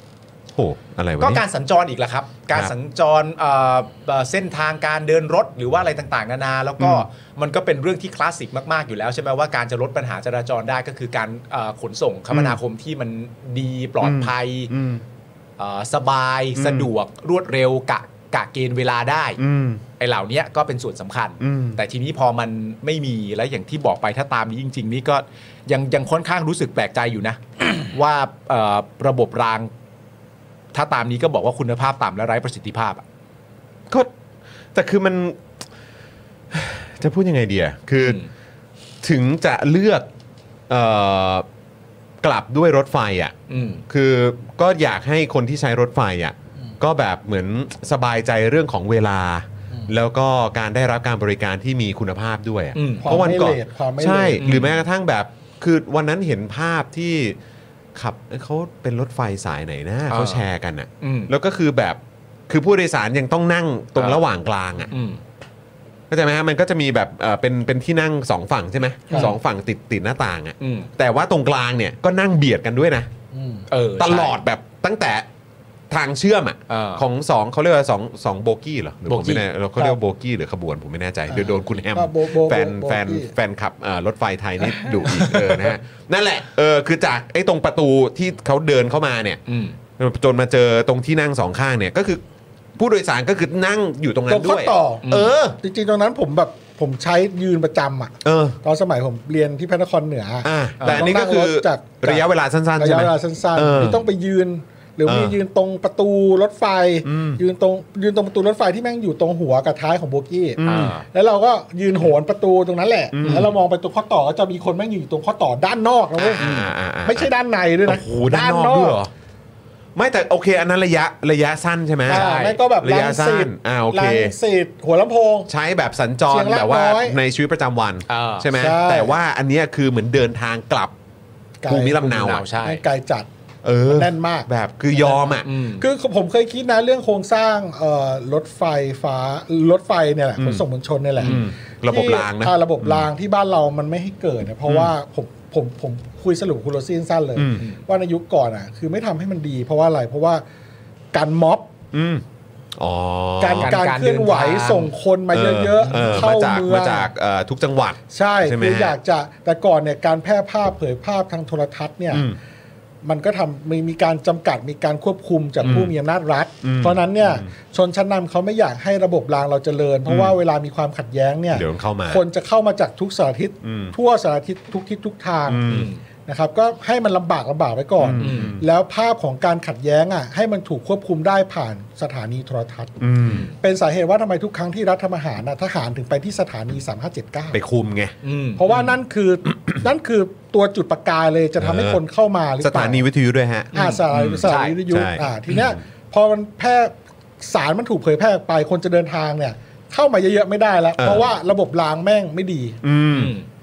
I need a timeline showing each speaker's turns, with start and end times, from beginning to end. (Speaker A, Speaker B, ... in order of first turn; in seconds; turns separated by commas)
Speaker A: 0.5-1.4, Speaker B: 1.2-14.7, Speaker A: 6.8-7.0, Speaker A: 12.3-12.6, Speaker A: 14.0-15.0, Speaker B: 15.6-19.4, Speaker A: 16.5-16.9, Speaker A: 19.4-19.8, Speaker B: 20.0-29.7, Speaker A: 21.4-21.8, Speaker B: 30.7-33.0, Speaker A: 34.7-35.4, Speaker A: 36.5-38.2, Speaker B: 38.0-38.3, Speaker A: 39.0-40.1, Speaker A: 40.7-41.5, Speaker A: 42.2-57.4, Speaker B: 43.5-43.8, Speaker B: 52.8-53.4, Speaker C: 53.0-54.5, Speaker B: 54.4-54.8, Speaker A: 57.9-64.9, Speaker B: 60.1-60.4, Speaker B: 61.0-61.3, Speaker B: 64.0-64.2, Speaker B: 64.9-65.2, Speaker A: 66.1-73.1, Speaker B: 69.1-69.3, Speaker B: 70.6-70.9, Speaker C: 73.3-73.6, Speaker B: 73.7-74.4, Speaker A: 74.0-75.2, Speaker A: 75.9-89.4, Speaker B: 76.7-77.0, Speaker B: 79.1-79.4, Speaker C: 81.3-83.3, Speaker B: 85.1-85.7, Speaker B: 89.5-89.8, Speaker A: 90.0-92.2, Speaker A: 92.8-95.6, Speaker C: 94.3-95.0, Speaker B: 95.0-95.3, Speaker C: 95.6-102.3, Speaker A: 98.2-98.6, Speaker A: 100.4-104.1, Speaker B: 100.8-101.1, Speaker C: 102.8-116.4, Speaker A: 105.0-105.4, Speaker A: 107.0-107.4, Speaker A: 110.6-111.0, Speaker B: 110.6-111.0, Speaker A: 113.1-113.5, Speaker B: 113.2-113.5, Speaker A: 116.2-117.3, Speaker B: 116.4-116.7, Speaker C: 117.0-119.0, Speaker A: 117.8-119.1, Speaker A: 120.0-122.3, Speaker B: 122.1-122.6, Speaker C: 122.1-125.5, Speaker A: 122.8-124.3, Speaker A: 125.5-130.9, Speaker C: 126.3-127.2, Speaker B: 128.1-128.5, Speaker C: 128.5-129.2, Speaker C: 131.6-133.3, Speaker A: 131.7-132.5, Speaker B: 132.0-132.8, Speaker A: 133.6-135.5, Speaker C: 133.9-135.3, Speaker B: 135.3-135.8, Speaker C: 135.8-150.4, Speaker A: 140.4-140.6, Speaker A: 141.2-143.1, Speaker A: 144.6-144.9, Speaker A: 147.3-147.6, Speaker C: 151.1-151.7, Speaker A: 151.9-152.2, Speaker A: 152.8-153.8, Speaker C: 153.4-157.1, Speaker B: 153.6-154.9, Speaker A: 155.3-159.0, Speaker B: 155.8-156.2, Speaker C: 158.1-162.3, Speaker A: 162.1-162.3, Speaker C: 163.0-175.7, Speaker A: 165.6-165.9, Speaker A: 166.6-167.5, Speaker A: 170.1-170.4, Speaker A: 171.5-172.2, Speaker A: 173.6-173.9, Speaker A: 175.5-175.9, Speaker B: 175.7-176.0, Speaker C: 176.2-183.0, Speaker A: 178.0-178.6, Speaker B: 178.2-178.6, Speaker A: 183.0-183.5, Speaker B: 183.2-183.5, Speaker C: 183.6-187.6, Speaker A: 187.5-188.1, Speaker B: 188.2-188.9, Speaker C: 188.6-193.0, Speaker A: 191.6-192.0, Speaker A: 192.6-195.8, Speaker C: 193.7-202.8, Speaker B: 193.7-194.8, Speaker A: 201.0-201.3, Speaker A: 202.8-203.3, Speaker B: 203.1-203.4